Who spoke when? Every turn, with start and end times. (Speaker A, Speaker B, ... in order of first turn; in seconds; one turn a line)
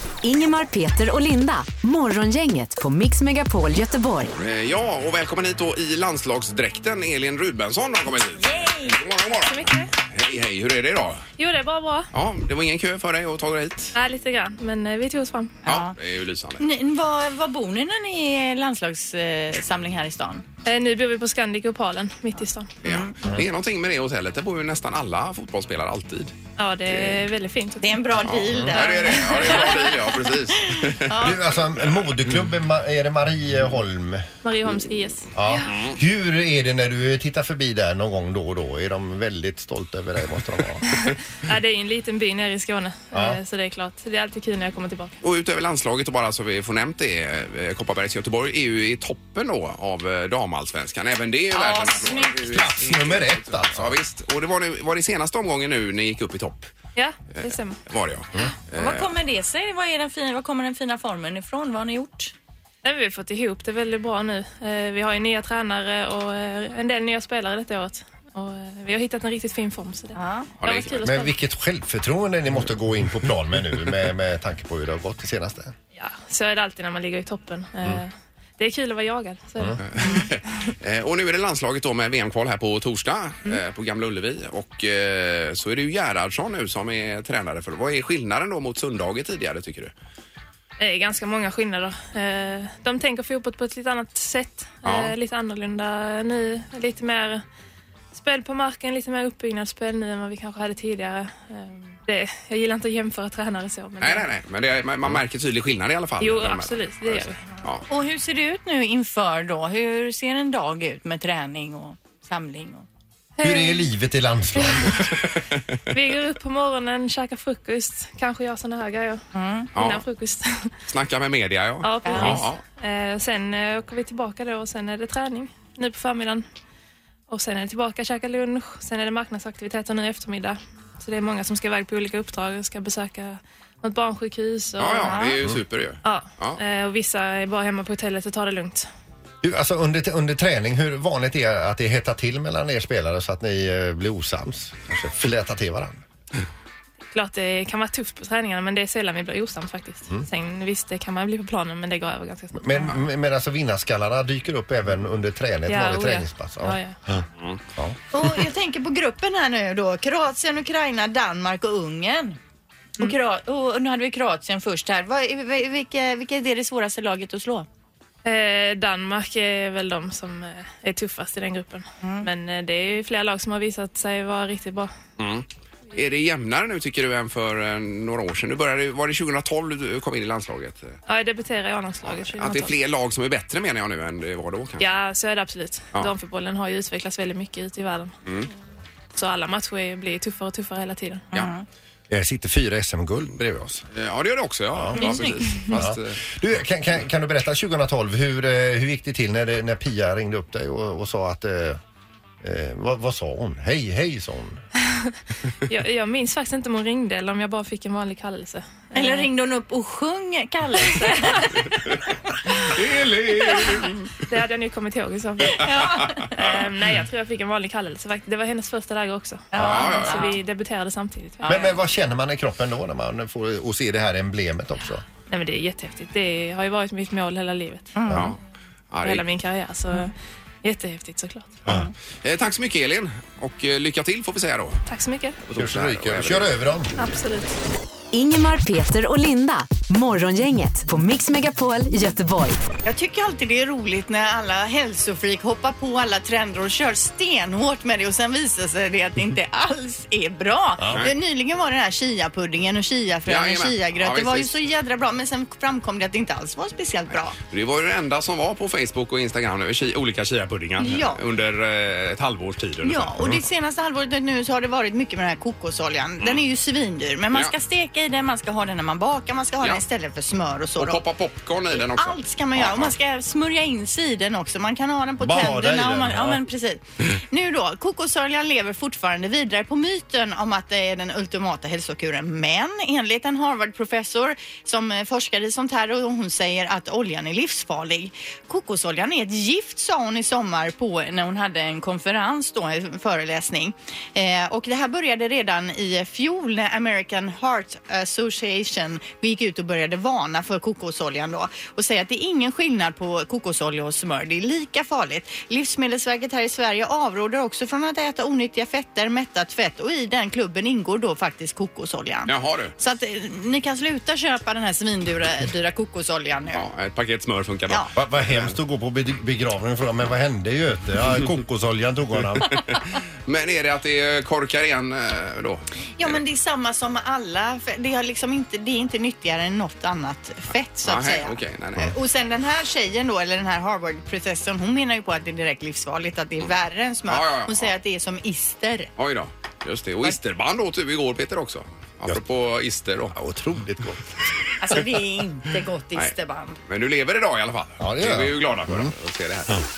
Speaker A: 0.2-4.3
Speaker B: 4.4-11.2
Speaker C: 8.4-9.0
Speaker D: 9.4-9.9
Speaker D: 11.4-12.1
Speaker B: 12.1-13.9
Speaker D: 13.9-15.6
Speaker C: 15.6-15.9
Speaker B: 15.7-16.6
Speaker C: 16.6-20.4
Speaker D: 20.6-22.7
Speaker B: 22.8-26.3
Speaker C: 22.8-23.1
Speaker D: 26.6-28.1
Speaker B: 26.9-27.2
Speaker C: 27.8-31.4
Speaker B: 28.2-31.4
Speaker E: 31.2-34.2
Speaker D: 34.4-35.7
Speaker E: 35.3-40.8
Speaker B: 35.7-36.0
Speaker D: 40.9-45.2
Speaker E: 43.1-43.4
Speaker B: 45.2-56.7
Speaker C: 51.5-52.6
Speaker E: 52.4-53.9
Speaker D: 56.9-57.8
Speaker B: 57.4-59.1
Speaker C: 58.7-62.3
Speaker D: 62.8-71.3
Speaker C: 70.1-70.5
Speaker B: 70.6-71.0
Speaker E: 71.0-75.7
Speaker D: 76.0-79.8
Speaker B: 79.8-89.9
Speaker C: 80.0-80.3
Speaker D: 90.8-97.4
Speaker B: 94.8-95.1
Speaker D: 98.1-104.3
Speaker B: 104.0-107.8
Speaker D: 106.2-107.4
Speaker C: 107.9-112.8
Speaker D: 113.4-113.9
Speaker E: 113.4-115.2
Speaker D: 114.6-114.9
Speaker B: 115.2-115.6
Speaker D: 115.9-119.2
Speaker C: 119.3-119.7
Speaker D: 119.7-120.7
Speaker B: 119.8-120.0
Speaker B: 120.9-122.6
Speaker D: 121.8-126.5
Speaker C: 122.0-122.4
Speaker D: 127.3-135.2
Speaker B: 134.8-136.6
Speaker C: 135.0-135.4
Speaker D: 136.0-138.9
Speaker E: 139.4-146.0
Speaker D: 147.1-153.0
Speaker E: 152.5-157.2
Speaker D: 155.7-157.0
Speaker E: 157.8-158.3
Speaker C: 158.1-162.4
Speaker C: 163.0-167.7
Speaker D: 168.2-174.9
Speaker C: 172.0-172.3
Speaker B: 175.2-181.0
Speaker D: 181.1-182.8
Speaker B: 182.0-184.9
Speaker D: 184.8-188.2
Speaker D: 189.1-191.2
Speaker C: 191.3-191.7
Speaker E: 192.1-193.8
Speaker B: 193.9-196.2
Speaker E: 194.7-201.8
Speaker C: 195.0-195.3
Speaker E: 202.4-204.6
Speaker D: 205.7-209.3
Speaker C: 208.9-212.0
Speaker D: 210.9-211.4
Speaker B: 212.7-214.1
Speaker D: 214.3-221.7
Speaker C: 219.5-220.4
Speaker B: 219.5-220.3
Speaker C: 221.4-221.7
Speaker E: 221.4-225.0
Speaker D: 225.3-227.9
Speaker C: 227.9-228.3
Speaker E: 228.1-228.3
Speaker B: 228.1-228.4
Speaker B: 228.9-229.2
Speaker D: 229.0-231.6
Speaker C: 231.7-231.9
Speaker B: 232.2-234.8
Speaker D: 234.9-235.4
Speaker B: 235.4-236.6
Speaker E: 235.6-236.9
Speaker D: 237.0-237.6
Speaker A: 238.1-242.6
Speaker C: 242.8-257.4
Speaker E: 250.8-251.1
Speaker B: 253.2-254.5
Speaker B: 257.4-263.3
Speaker C: 260.8-261.2
Speaker C: 262.8-271.0
Speaker B: 270.8-272.9
Speaker C: 271.9-316.6
Speaker E: 275.2-276.4
Speaker B: 312.3-312.7
Speaker B: 316.5-318.6
Speaker E: 317.9-322.6
Speaker B: 322.4-326.2
Speaker C: 326.0-338.9
Speaker B: 330.8-331.9
Speaker B: 337.1-337.8
Speaker B: 339.0-343.1
Speaker E: 343.1-344.3
Speaker C: 344.6-346.6
Speaker B: 346.7-349.6
Speaker E: 347.8-348.9